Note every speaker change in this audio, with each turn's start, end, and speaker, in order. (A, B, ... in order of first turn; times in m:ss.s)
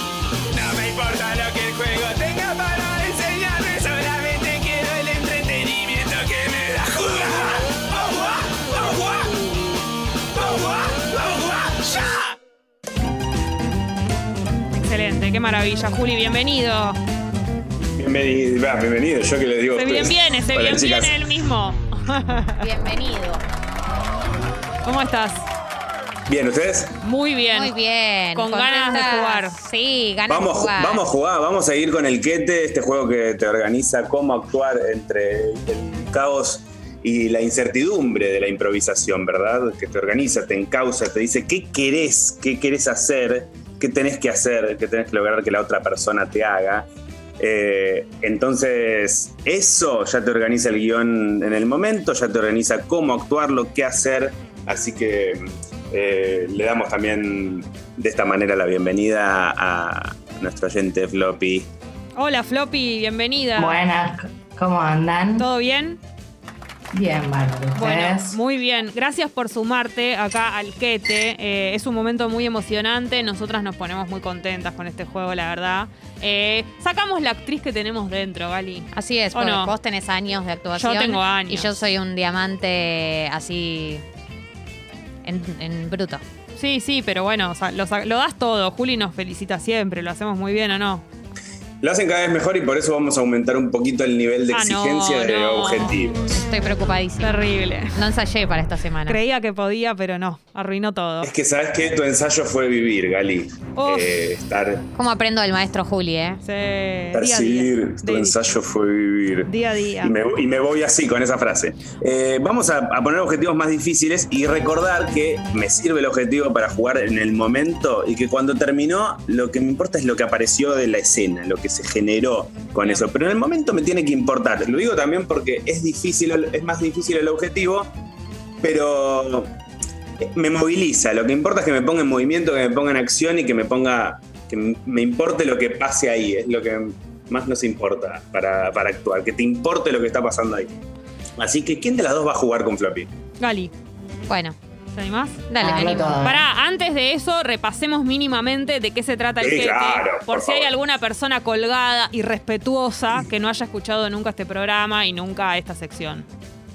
0:00.5-0:09.5 A
0:10.4-0:12.4 A
0:14.7-0:17.0 B
0:18.0-0:21.2 A
0:19.7-0:22.6 B
0:22.6-0:23.4 C
0:24.8-0:25.4 B
0:26.3-0:26.9 A
0:27.0-0:27.8 B
0:27.5-0:31.1 C
0:28.4-0:29.6 B
0:30.3-0:46.9 A
0:47.4-1:01.7 A
1:02.2-1:03.8 B
1:03.6-1:05.5 D
1:05.4-1:06.0 B
1:06.9-1:08.4 D
1:07.8-1:19.7 B
1:18.9-1:24.0 C
1:20.8-1:21.7 B
1:25.2-1:26.2 C
1:26.6-1:31.0 B
1:31.8-1:36.2 A
1:34.5-1:36.0 B
1:36.3-1:37.3 C
1:37.2-1:38.0 B
1:37.9-1:39.2 C
1:39.1-1:41.3 B
1:41.2-1:44.9 A
1:43.7-1:44.1 B
1:45.0-1:46.4 C
1:46.4-1:48.4 B
1:47.1-2:07.9 A
1:49.5-1:50.1 B
2:02.8-2:03.1 B
2:08.6-2:09.5 A
2:10.2-2:20.7 A
2:21.4-2:23.1 A
2:23.4-2:23.7 B
2:24.3-2:24.6 C
2:24.9-2:25.4 B
2:25.5-2:26.2 C
2:25.6-2:26.5 D
2:26.2-2:36.3 B
2:29.4-2:30.8 A